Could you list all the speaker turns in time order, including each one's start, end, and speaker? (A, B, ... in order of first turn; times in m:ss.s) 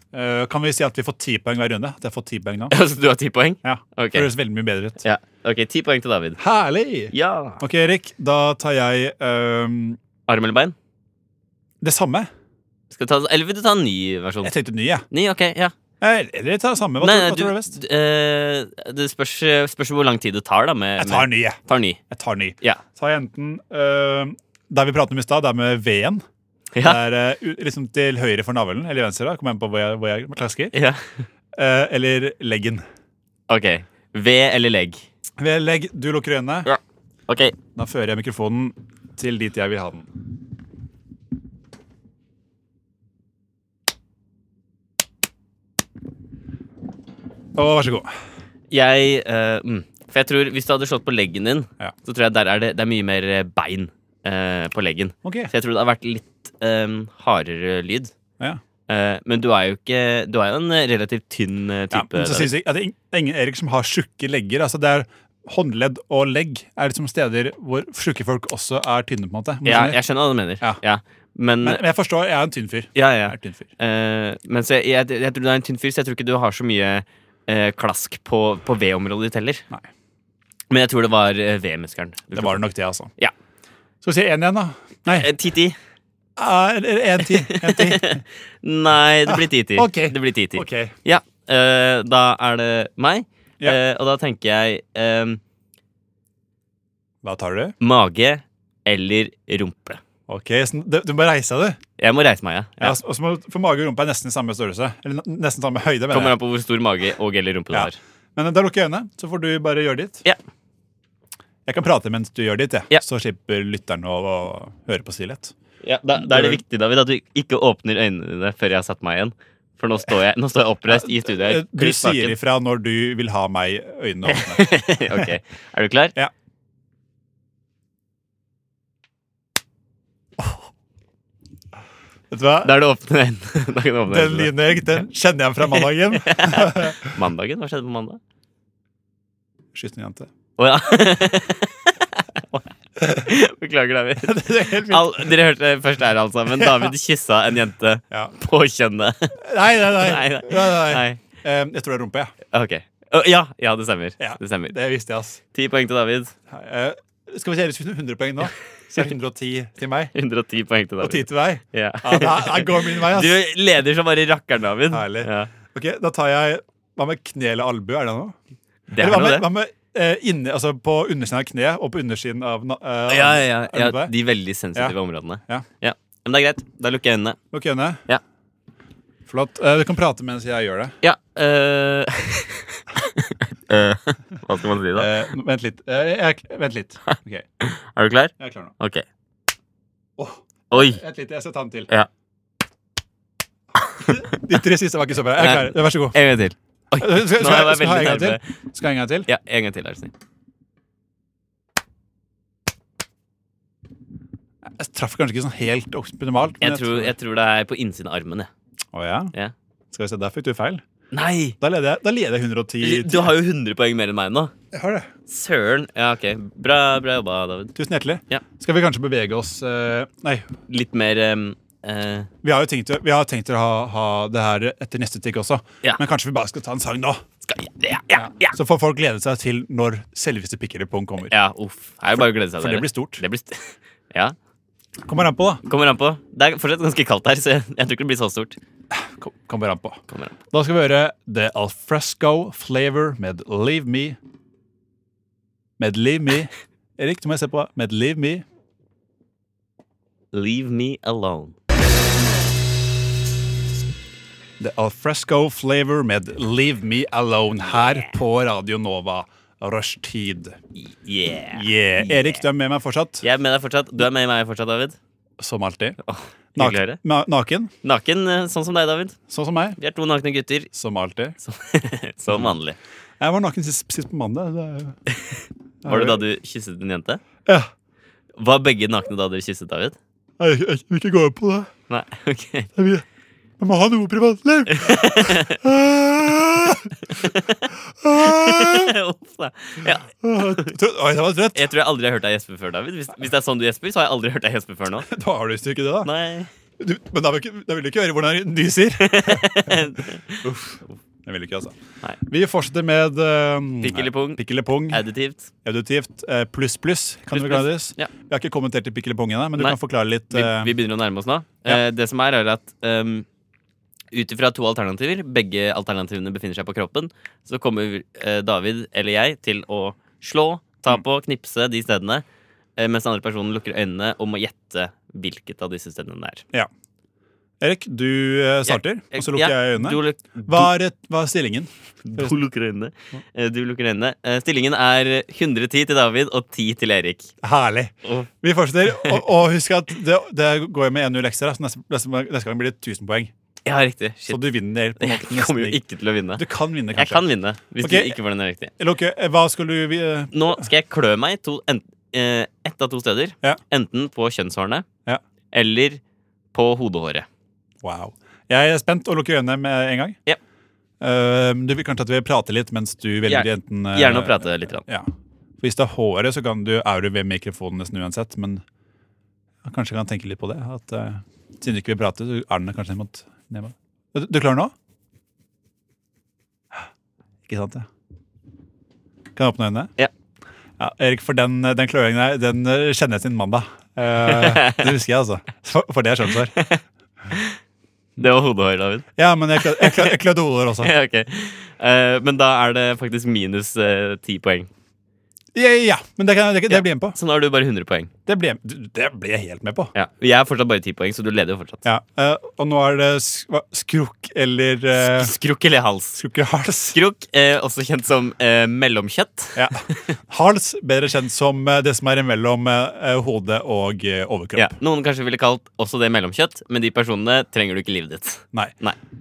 0:00.1-0:02.7 A
0:02.7-0:04.3 B
0:03.6-0:05.0 A
0:05.0-0:06.4 B
0:06.4-0:10.0 A
0:07.1-0:07.6 B
0:10.3-0:10.8 B
0:11.8-0:12.3 A
0:12.9-0:14.5 B
0:14.4-0:15.1 A
0:15.1-0:15.7 B
0:16.0-0:17.7 A
0:17.0-0:22.0 B
0:21.0-0:21.6 A
0:22.1-0:26.2 A
0:26.8-0:27.0 B
0:26.8-0:30.7 A
0:30.7-0:31.1 B
0:31.6-0:32.8 A
0:33.5-0:35.0 B
0:35.4-0:36.7 A
0:36.6-0:37.6 B
0:37.8-0:40.1 A
0:47.6-0:48.1 A
0:48.7-0:58.1 B
0:55.2-0:55.5 A
0:58.9-1:02.5 B
1:01.9-1:10.0 A
1:09.6-1:11.8 B
1:11.6-1:13.7 A
1:13.0-1:19.6 B
1:20.7-1:22.6 B
1:22.3-1:23.1 A
1:24.0-1:25.3 A
1:25.1-1:25.8 B
1:26.4-1:28.2 A
1:27.4-1:35.4 B
1:29.3-1:30.9 A
1:37.2-1:37.8 A
1:37.8-1:40.0 B
1:40.3-1:41.8 A
1:42.0-1:43.0 B
1:42.8-1:46.4 A
1:46.1-1:48.0 B
1:47.7-1:50.2 A
1:51.7-1:55.5 A
1:55.8-2:02.4 B
1:56.2-1:56.6 A
2:00.9-2:05.3 A
2:04.3-2:06.1 B
2:12.3-2:12.7 A
2:12.6-2:14.5 B
2:14.1-2:17.1 A
2:15.7-2:18.2 B
2:19.7-2:20.3 A
2:20.6-2:31.2 B
2:24.2-2:25.4 A
2:26.6-2:26.9 A
2:29.4-2:32.3 A
2:32.5-2:34.8 B
2:34.2-2:35.4 A
2:35.5-2:36.3 B
2:36.5-2:40.1 A
2:40.1-2:45.5 B
2:41.0-2:43.4 A
2:44.9-2:48.4 A
2:48.9-2:49.5 B
2:49.0-2:54.1 A
2:53.1-2:57.4 B
2:57.5-2:58.0 A
2:59.3-3:01.0 A
3:01.0-3:05.1 B
3:05.0-3:07.5 A
3:07.1-3:09.1 B
3:08.4-3:08.7 A
3:10.2-3:11.9 A
3:10.7-3:11.0 B
3:14.1-3:16.2 A
3:15.4-3:18.4 B
3:17.0-3:19.3 A
3:19.3-3:20.1 B
3:24.7-3:27.1 A
3:26.6-3:28.5 B
3:28.9-3:29.3 A
3:29.9-3:30.8 A
3:31.1-3:31.6 B
3:31.6-3:33.3 A
3:32.8-3:34.5 B
3:34.7-3:35.1 A
3:35.3-3:37.8 B
3:37.8-3:40.5 A
3:40.7-3:42.3 B
3:42.4-3:47.2 A
3:47.4-3:48.6 B
3:48.2-3:51.3 A
3:51.3-3:54.4 B
3:52.2-3:53.2 A
3:55.0-3:55.6 A
3:55.7-3:58.6 B
3:58.9-4:04.2 A
4:00.1-4:00.4 B
4:05.8-4:08.4 A
4:10.3-4:11.6 B
4:14.6-4:20.6 A
4:20.8-4:22.4 B
4:21.5-4:23.2 A
4:23.2-4:25.0 B
4:25.4-4:26.0 A
4:26.0-4:27.0 B
4:26.6-4:27.7 A
4:27.8-4:29.2 B
4:29.3-4:29.8 A
4:29.8-4:30.7 B
4:30.7-4:31.4 A
4:31.4-4:32.8 B
4:32.3-4:32.5 A
4:33.2-4:35.0 A
4:35.8-4:36.2 A
4:35.8-4:37.2 B
4:38.4-4:40.0 B
4:40.4-4:41.7 A
4:41.9-4:42.7 B
4:42.8-4:43.0 A
4:43.6-4:47.3 A
4:44.7-4:45.6 B
4:47.1-4:50.8 B
4:47.9-4:48.9 A
4:50.2-4:51.7 A
4:51.5-4:55.1 B
4:55.1-4:56.1 A
4:56.0-4:56.5 B
4:56.8-5:00.0 A
4:59.0-5:00.9 B
5:01.2-5:05.0 A
5:03.8-5:05.5 B
5:05.6-5:10.7 A
5:07.3-5:08.1 B
5:10.3-5:13.3 B
5:14.1-5:22.2 B
5:22.8-5:26.4 B
5:27.6-5:32.4 A
5:28.7-5:30.7 B
5:32.0-5:37.3 B
5:37.4-5:43.3 A
5:38.0-5:38.3 B
5:39.0-5:39.2 B
5:43.7-5:44.4 B
5:44.3-5:45.8 A
5:45.0-5:48.7 B
5:46.4-5:47.3 A
5:47.8-5:48.2 A
5:48.8-5:50.6 A
5:50.3-5:54.9 B
5:55.5-5:56.0 B
5:56.5-5:57.3 B
5:57.8-6:00.2 A
6:01.0-6:05.1 A
6:03.3-6:04.9 B
6:05.6-6:08.6 A
6:09.6-6:14.7 A
6:17.5-6:17.9 A
6:19.4-6:19.9 A
6:20.8-6:26.6 A
6:24.3-6:24.9 B
6:26.6-6:27.6 B
6:28.2-6:30.1 B
6:29.2-6:30.9 A
6:30.8-6:34.7 B
6:35.5-6:37.2 A
6:36.7-6:38.1 B
6:38.3-6:39.9 A
6:39.9-6:41.8 B
6:41.8-6:45.3 A
6:45.0-6:46.2 B
6:46.1-6:47.0 A
6:46.9-6:50.1 B
6:49.6-6:54.7 A
6:54.6-6:59.0 B